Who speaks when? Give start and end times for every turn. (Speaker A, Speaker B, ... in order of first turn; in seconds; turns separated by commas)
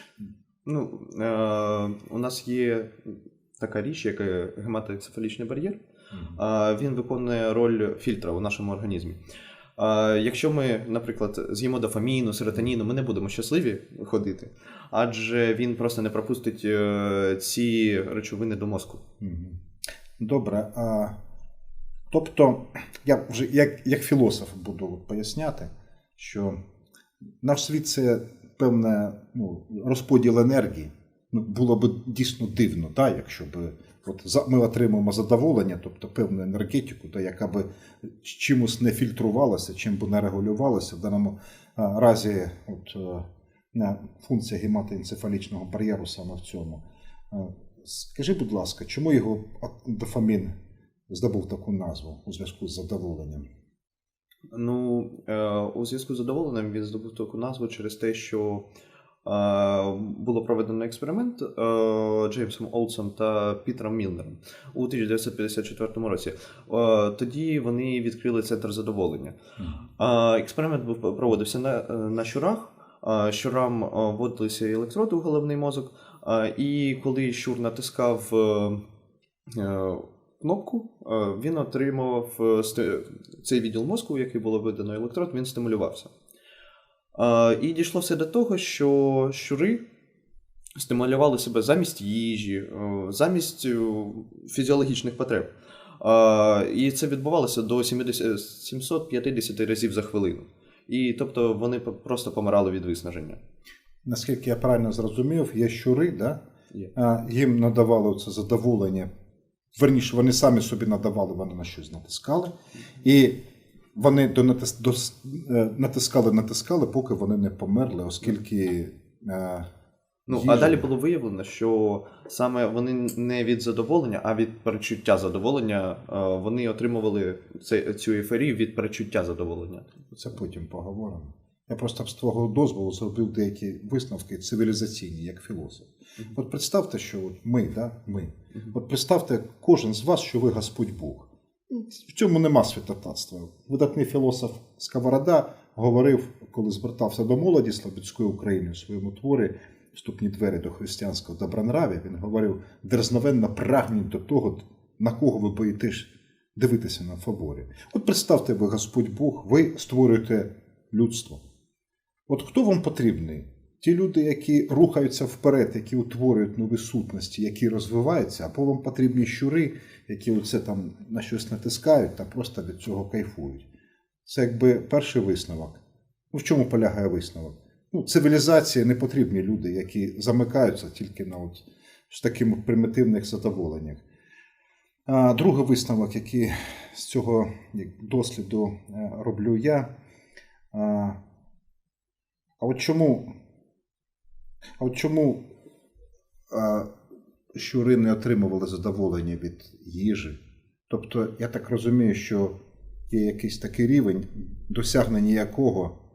Speaker A: 0.7-5.8, Speaker B: 6.1-6.4, Speaker A: 6.4-9.2, Speaker A: 9.8-19.0, Speaker B: 19.2-19.6, Speaker B: 20.2-21.2, Speaker B: 22.1-26.6, Speaker B: 27.4-50.5, Speaker B: 51.1-53.5, Speaker A: 54.5-58.6, Speaker A: 59.2-69.4, Speaker B: 69.6-69.8, Speaker A: 70.0-78.8, Speaker A: 79.5-86.1, Speaker A: 87.2-89.8, Speaker A: 90.8-103.4, Speaker B: 104.0-106.4, Speaker B: 107.0-109.1, Speaker B: 109.8-113.4, Speaker B: 114.0-119.7, Speaker A: 120.3-130.0, Speaker B: 120.3-120.9, Speaker B: 130.1-161.4, Speaker B: 162.3-173.7, Speaker B: 174.3-184.0, Speaker B: 185.1-189.9, Speaker B: 190.7-191.2, Speaker B: 192.6-193.3, Speaker B: 194.8-195.4, Speaker B: 196.5-196.9, Speaker B: 197.5-202.6, Speaker B: 203.1-205.9